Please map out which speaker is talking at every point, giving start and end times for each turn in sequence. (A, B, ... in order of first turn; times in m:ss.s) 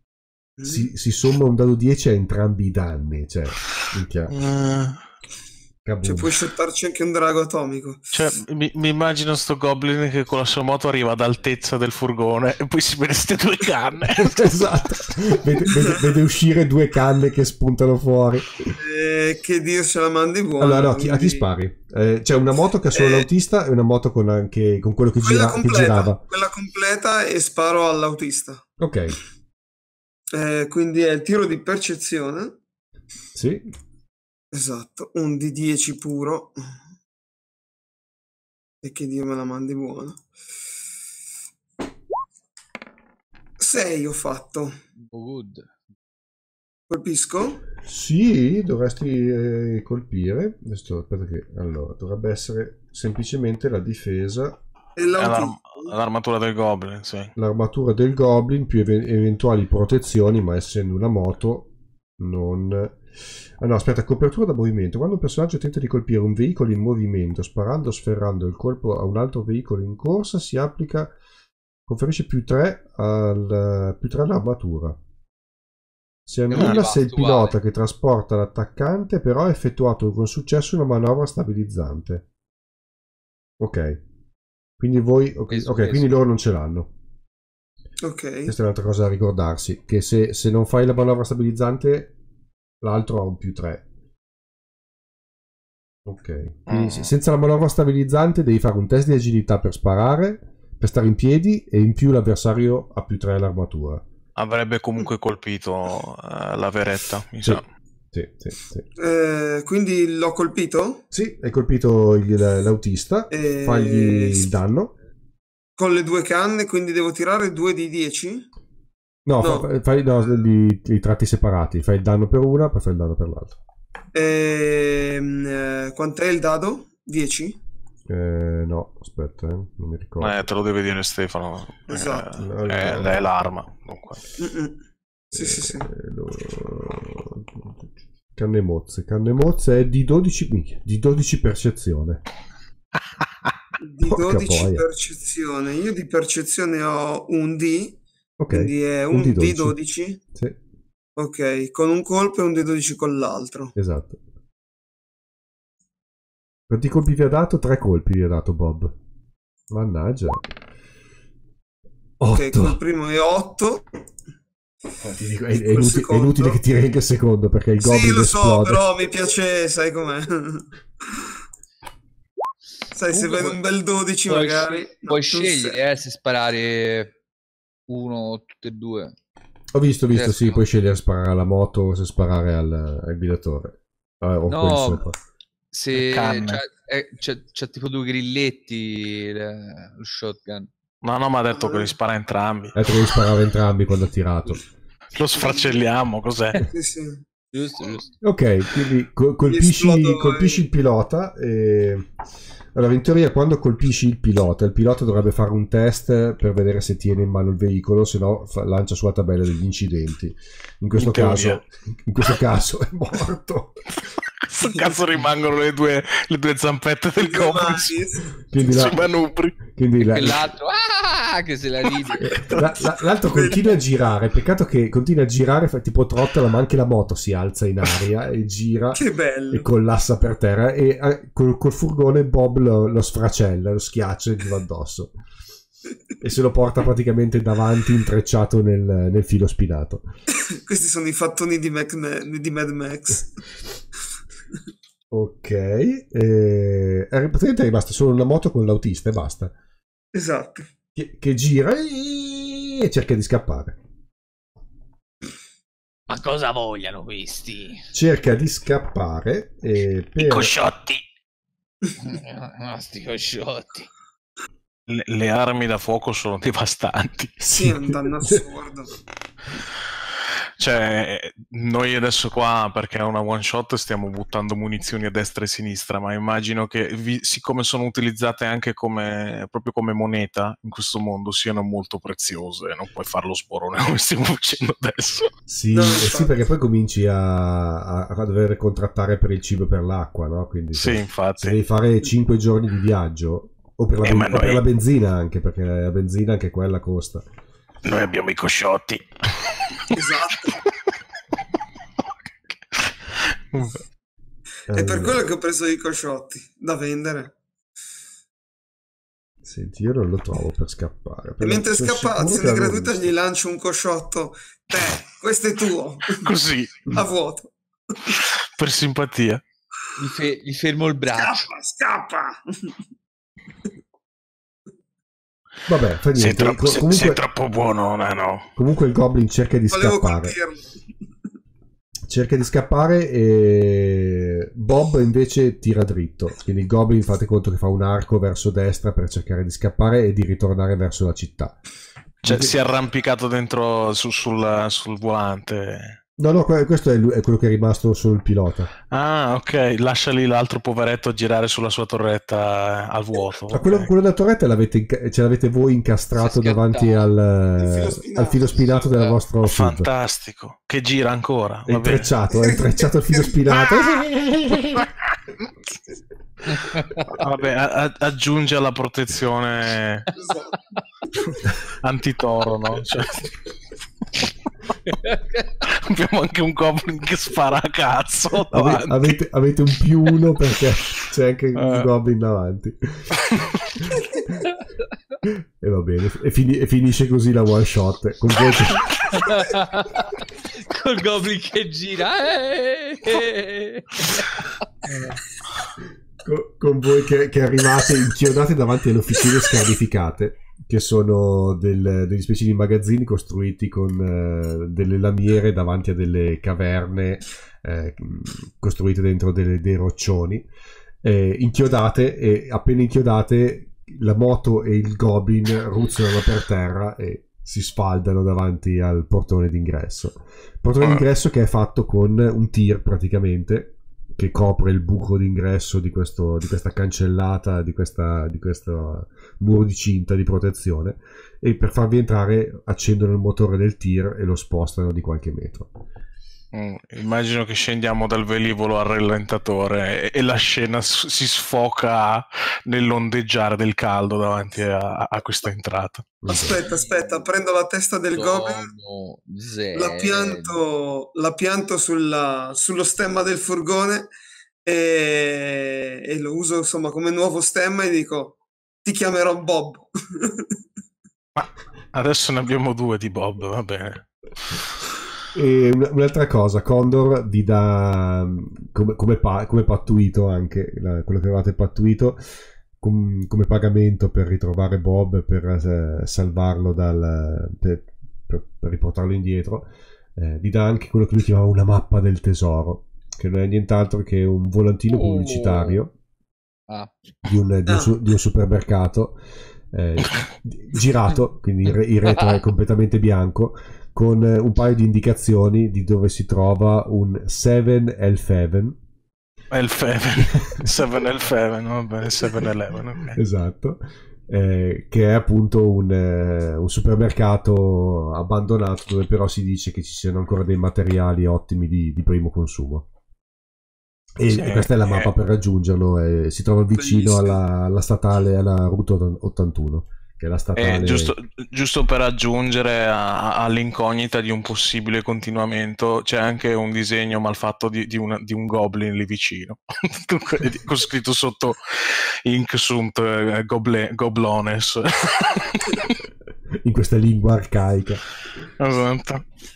0:00.6-0:00.9 A
0:00.6-0:04.3 B
0:04.3-0:05.0 C
0:05.8-0:06.4 B
0:06.0-0:08.2 A
0:08.1-0:14.8 C
0:14.1-0:18.8 B
0:15.6-0:16.1 A
0:18.8-0:21.4 A
0:20.6-0:26.2 B
0:22.9-0:23.3 A
0:25.2-0:28.6 A
0:28.8-0:29.2 B
0:30.3-0:32.5 A
0:33.3-0:33.7 B
0:34.5-0:36.6 A
0:38.8-0:40.2 A
0:43.6-0:44.8 A
0:45.0-0:45.7 D
0:46.9-0:47.6 A
0:47.8-0:54.6 B
0:55.0-0:55.9 A
0:55.2-0:57.3 C
0:57.4-1:03.0 B
1:03.6-1:11.1 B
1:11.9-1:15.0 B
1:16.3-1:22.2 B
1:16.5-1:17.6 D
1:16.5-1:16.8 C
1:23.6-1:24.0 B
1:24.8-1:26.9 B
1:25.5-1:26.2 D
1:28.0-1:28.5 A
1:28.5-1:32.1 B
1:32.8-1:33.8 B
1:36.0-1:44.0 B
1:36.7-1:37.1 C
1:44.4-1:47.6 C
1:47.4-1:48.8 B
1:49.0-1:51.0 A
1:51.1-1:54.9 B
1:53.3-1:54.4 A
1:55.8-1:58.5 A
1:59.2-2:03.6 B
1:59.4-1:59.7 A
2:04.1-2:07.6 A
2:08.1-2:10.5 B
2:10.2-2:14.2 C
2:11.9-2:12.3 A
2:12.4-2:13.2 B
2:14.4-2:14.8 A
2:15.3-2:15.9 A
2:15.3-2:22.2 B
2:23.8-2:28.0 A
2:24.0-2:24.8 B
2:28.4-2:29.8 B
2:28.5-2:30.2 A
2:31.2-2:33.7 A
2:33.8-2:34.2 B
2:36.7-2:38.9 B
2:39.7-2:40.5 B
2:42.2-2:42.8 B
2:42.3-2:43.9 A
2:45.0-2:48.8 B
2:45.5-2:46.6 A
2:47.8-2:51.3 A
2:52.9-2:55.8 A
2:53.1-2:53.6 D
2:54.3-2:57.2 D
2:57.9-2:59.1 D
2:59.7-3:05.1 B
3:00.1-3:00.6 D
3:04.5-3:05.0 D
3:05.7-3:10.7 D
3:05.9-3:06.6 C
3:11.0-3:12.9 C
3:11.5-3:11.9 A
3:12.7-3:14.6 B
3:15.1-3:16.6 C
3:15.4-3:15.7 A
3:16.7-3:17.2 A
3:17.5-3:18.1 D
3:18.2-3:22.1 B
3:19.5-3:20.6 A
3:22.7-3:33.8 B
3:31.0-3:31.6 C
3:34.4-3:38.0 C
3:37.2-3:38.4 A
3:38.5-3:39.1 B
3:38.5-3:39.6 C
3:39.6-3:40.5 B
3:40.0-3:42.5 D
3:42.2-3:55.1 B
3:43.3-3:43.8 A
3:48.9-3:49.7 A
3:56.2-4:00.0 B
4:00.5-4:03.4 A
4:05.1-4:09.5 B
4:10.1-4:10.7 A
4:10.9-4:13.8 B
4:16.1-4:17.8 D
4:17.9-4:20.5 B
4:20.2-4:21.0 C
4:22.0-4:23.9 D
4:24.9-4:27.4 C
4:27.4-4:28.4 B
4:27.5-4:28.9 A
4:30.6-4:45.3 C
4:45.5-4:57.2 B
4:45.7-4:46.4 A
4:50.7-4:51.6 C
4:54.0-4:54.6 C
4:57.8-4:59.0 C
4:59.6-4:59.9 C
4:59.9-5:00.6 A
5:02.7-5:03.8 C
5:04.7-5:05.3 B
5:04.7-5:07.3 A
5:09.4-5:13.1 B
5:11.4-5:16.3 A
5:16.1-5:16.8 C
5:16.9-5:18.1 A
5:18.1-5:19.4 C
5:20.0-5:21.5 D
5:21.1-5:22.8 A
5:25.7-5:27.2 B
5:26.1-5:28.5 C
5:28.6-5:30.3 B
5:29.7-5:30.7 A
5:32.1-5:41.6 B
5:42.2-5:42.5 B
5:42.2-5:46.0 C
5:46.2-5:48.7 B
5:48.9-5:53.9 C
5:53.5-5:59.9 B
5:56.1-5:57.1 D
5:57.6-5:58.9 A
5:59.4-6:02.1 C
6:01.7-6:04.9 B
6:02.3-6:03.3 A
6:06.5-6:07.0 D
6:07.0-6:10.1 C
6:10.1-6:10.7 A
6:11.2-6:13.3 C
6:14.8-6:15.5 D
6:15.6-6:19.2 C
6:18.5-6:23.2 B
6:21.5-6:21.9 C
6:23.2-6:23.7 C
6:25.2-6:28.9 B
6:29.1-6:35.2 D
6:36.2-6:50.4 B
6:51.0-7:15.7 B
7:16.5-7:26.0 C
7:26.2-7:26.6 B
7:26.3-7:28.7 A
7:26.6-7:27.3 D
7:28.1-7:30.6 D
7:29.7-7:34.1 A
7:34.6-7:40.6 A
7:41.4-7:44.6 C
7:45.3-7:52.2 B
7:52.8-8:05.9 B
8:04.9-8:05.8 D
8:07.2-8:09.2 B
8:07.7-8:07.9 A
8:09.7-8:18.8 B
8:19.5-8:23.2 C
8:23.1-8:32.8 B
8:34.2-8:41.1 B
8:34.3-8:35.1 C
8:36.8-8:37.4 A
8:40.6-8:56.0 C
8:56.6-8:58.0 B
8:58.6-8:59.2 C